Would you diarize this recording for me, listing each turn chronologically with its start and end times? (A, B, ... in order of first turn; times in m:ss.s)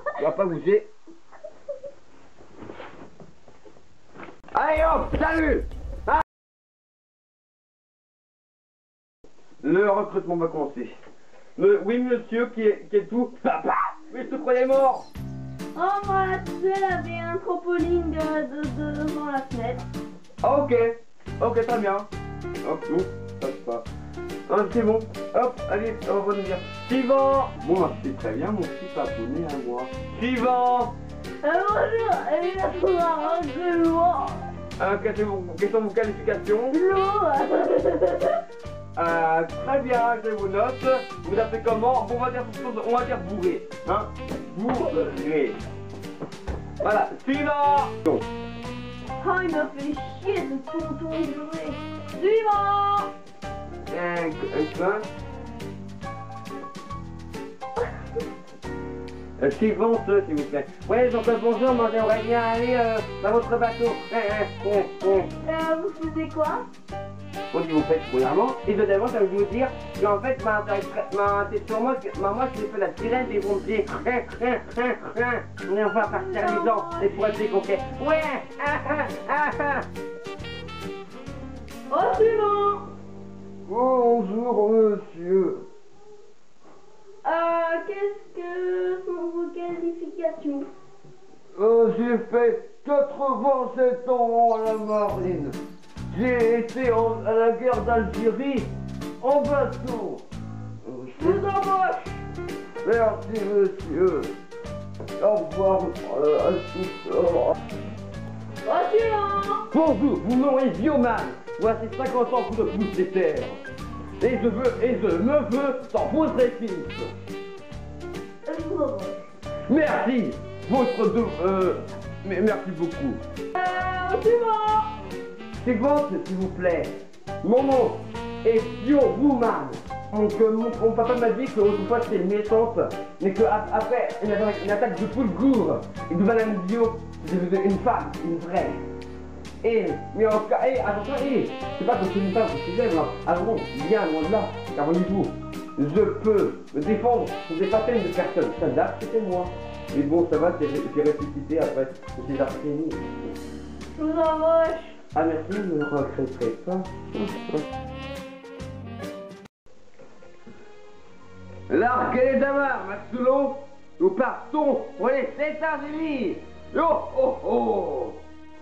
0:00.2-0:00.9 A
0:04.5-0:06.2 A
0:09.6-0:11.0 A
0:11.6-0:15.1 A
0:15.7-0:19.8 B
0:20.4-0:22.1 A
0:22.6-0:23.8 A
0:24.5-0:31.0 A
0:31.4-0:34.5 B
0:34.8-0:36.8 A
0:36.7-0:38.4 B
0:38.9-0:45.6 A
0:46.8-0:48.3 A
0:49.2-0:53.1 B
0:53.9-0:55.0 A
0:59.4-1:05.3 A
1:05.0-1:06.6 B
1:07.5-1:19.8 A
1:16.0-1:17.3 B
1:21.9-1:22.9 B
1:23.7-1:25.6 A
1:27.2-1:30.7 B
1:31.5-1:35.6 A
1:36.1-1:40.2 A
1:40.8-1:41.4 A
1:41.2-1:42.1 B
1:42.8-1:44.3 A
1:45.2-1:47.6 A
1:48.6-1:49.7 B
1:49.7-1:53.6 A
1:54.2-1:57.1 A
1:58.4-1:59.2 B
1:59.7-2:03.2 A
2:03.5-2:05.0 B
2:05.6-2:18.8 A
2:19.6-2:33.3 A
2:33.9-2:35.0 B
2:35.1-2:37.6 A
2:41.7-2:48.2 A